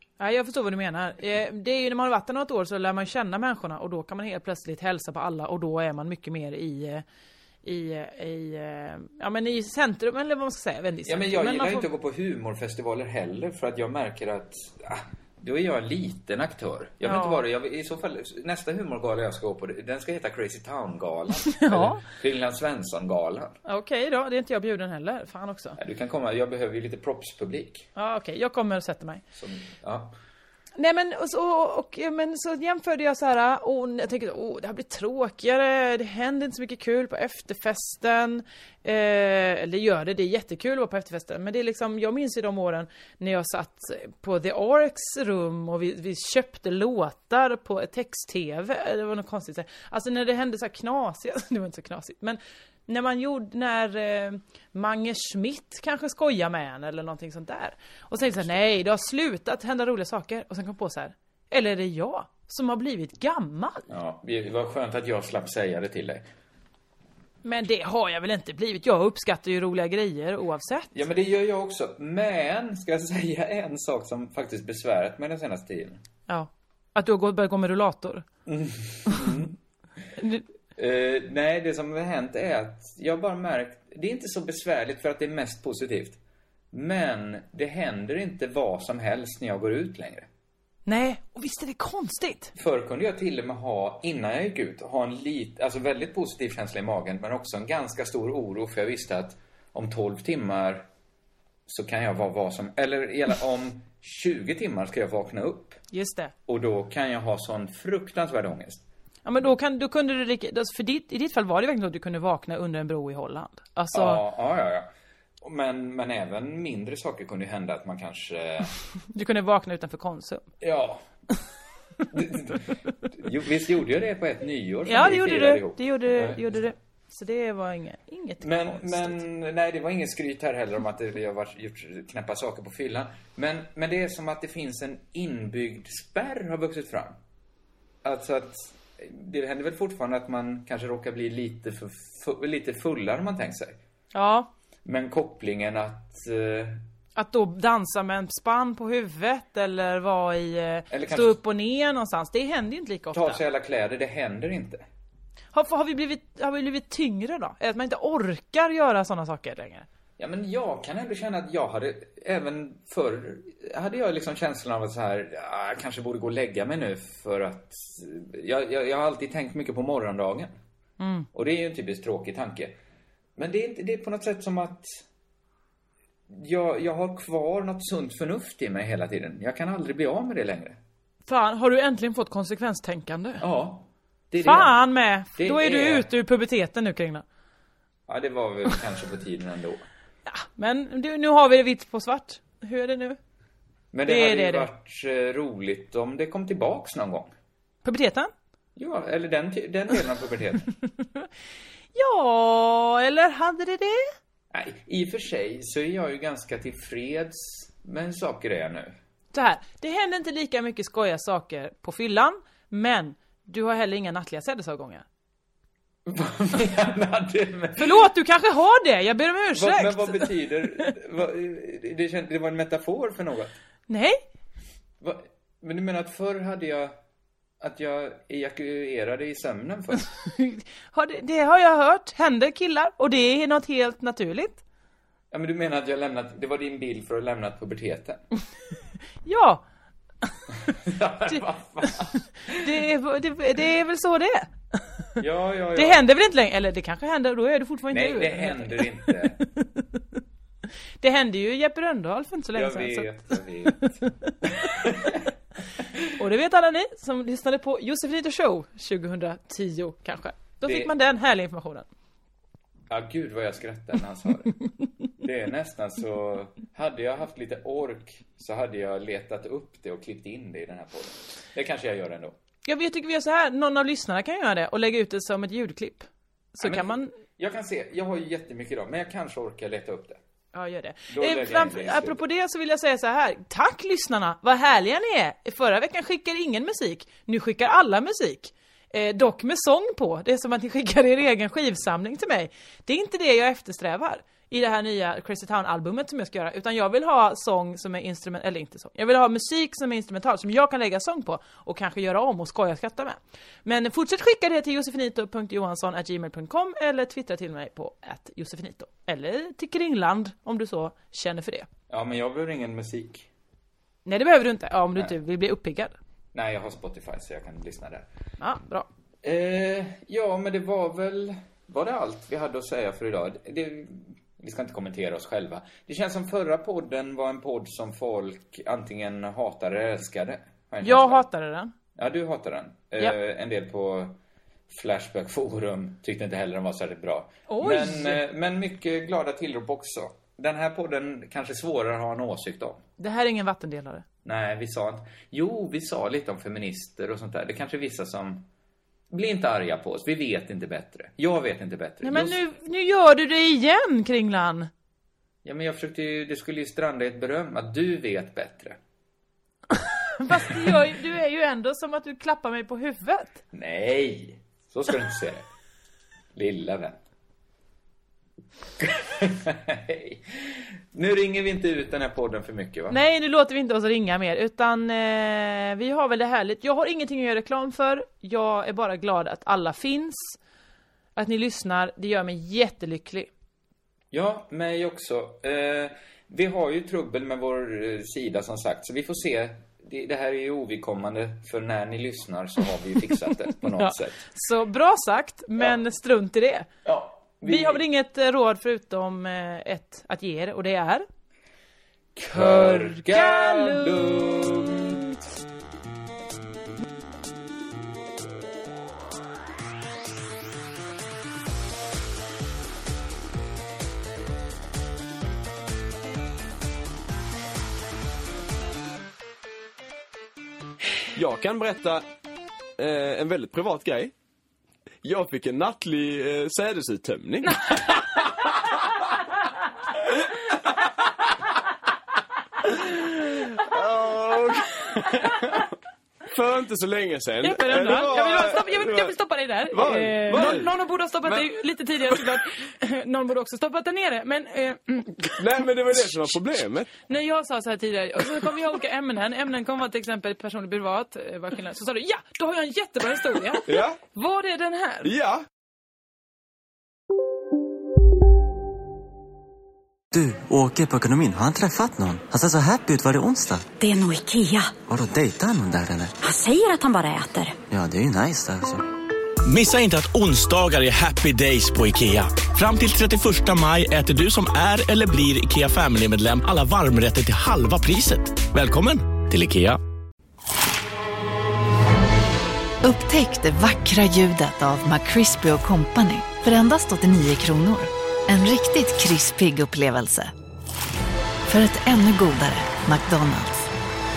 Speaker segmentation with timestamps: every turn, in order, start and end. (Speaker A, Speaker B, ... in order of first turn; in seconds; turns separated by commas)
Speaker A: 0.2-7.0, Speaker A: 7.6-11.9, Speaker B: 11.1-23.6, Speaker A: 17.0-17.4, Speaker A: 21.4-22.0, Speaker A: 23.6-25.8, Speaker B: 25.8-27.9, Speaker A: 28.0-29.2, Speaker B: 29.3-30.2, Speaker A: 30.8-63.9, Speaker B: 63.9-66.3, Speaker A: 67.4-70.9, Speaker B: 70.9-76.0, Speaker A: 76.3-78.2, Speaker B: 78.5-79.5, Speaker A: 80.2-80.4, Speaker B: 80.8-86.2, Speaker B: 86.7-90.3, Speaker A: 90.9-92.5, Speaker B: 92.5-100.9, Speaker B: 101.7-105.8, Speaker A: 105.9-106.3, Speaker B: 106.5-108.8, Speaker A: 109.2-114.2, Speaker B: 113.9-114.9, Speaker B: 115.4-118.7, Speaker A: 119.1-120.5, Speaker B: 120.6-121.0, Speaker B: 122.1-126.4, Speaker A: 124.9-129.2, Speaker B: 128.4-137.2, Speaker B: 138.0-143.8, Speaker A: 144.1-144.5, Speaker B: 144.8-146.8, Speaker A: 147.2-153.4, Speaker B: 150.9-151.4, Speaker B: 153.1-154.9, Speaker A: 155.5-159.9, Speaker B: 160.2-170.5, Speaker A: 171.0-171.3, Speaker B: 171.3-172.8, Speaker B: 173.4-175.0, Speaker B: 176.3-180.8, Speaker A: 181.3-183.4, Speaker B: 183.4-184.8, Speaker A: 184.4-187.2, Speaker B: 185.3-186.1, Speaker B: 188.1-189.8, Speaker A: 190.3-193.2, Speaker B: 193.9-197.3, Speaker A: 194.1-194.7, Speaker A: 197.8-198.3, Speaker B: 198.8-200.7, Speaker A: 201.9-204.1, Speaker B: 204.5-209.0, Speaker A: 209.3-215.1, Speaker B: 216.1-218.0, Speaker A: 217.8-220.9, Speaker B: 219.6-223.6, Speaker A: 223.9-224.2, Speaker B: 225.0-226.9, Speaker B: 227.6-230.1, Speaker A: 230.2-234.6, Speaker B: 235.3-238.2, Speaker A: 239.2-239.6, Speaker B: 240.8-242.7, Speaker A: 241.3-244.9, Speaker B: 245.2-246.0, Speaker A: 245.8-250.0, Speaker B: 247.9-249.4, Speaker A: 251.0-254.7, Speaker B: 252.5-255.2, Speaker A: 256.2-261.9, Speaker B: 260.6-260.9, Speaker B: 262.9-264.6, Speaker B: 265.2-272.4, Speaker A: 272.7-277.1, Speaker B: 276.6-280.2, Speaker A: 280.5-311.7, Speaker B: 281.1-282.2, Speaker B: 311.9-313.3, Speaker A: 314.1-316.0, Speaker B: 316.3-318.1, Speaker A: 318.4-318.9, Speaker B: 319.2-331.3, Speaker A: 330.8-331.7, Speaker B: 332.0-334.2, Speaker B: 334.7-342.8, Speaker A: 337.5-338.2, Speaker A: 343.0-344.0, Speaker B: 344.2-348.4, Speaker B: 349.1-352.4, Speaker A: 352.0-354.7, Speaker B: 355.4-358.8, Speaker A: 360.2-363.4, Speaker B: 363.5-365.4, Speaker B: 366.4-367.0, Speaker B: 368.8-373.0, Speaker A: 372.9-380.4, Speaker A: 381.2-383.3, Speaker B: 384.1-394.2, Speaker A: 393.7-396.7, Speaker B: 396.9-397.8, Speaker A: 397.4-401.1, Speaker B: 402.2-405.0, Speaker A: 402.3-404.1, Speaker C: 421.1-422.0, Speaker C: 422.8-424.1, Speaker C: 425.0-428.2, Speaker C: 433.0-435.6, Speaker C: 436.3-439.2, Speaker A: 437.4-445.4, Speaker C: 439.7-441.5, Speaker C: 445.4-446.9, Speaker A: 447.0-455.1, Speaker C: 453.7-454.0, Speaker C: 455.0-455.4, Speaker D: 460.1-463.7, Speaker E: 463.8-464.7, Speaker D: 464.9-466.1, Speaker E: 466.2-467.5, Speaker D: 467.7-468.8, Speaker F: 469.5-479.8, Speaker G: 482.8-490.3, Speaker G: 491.5-493.7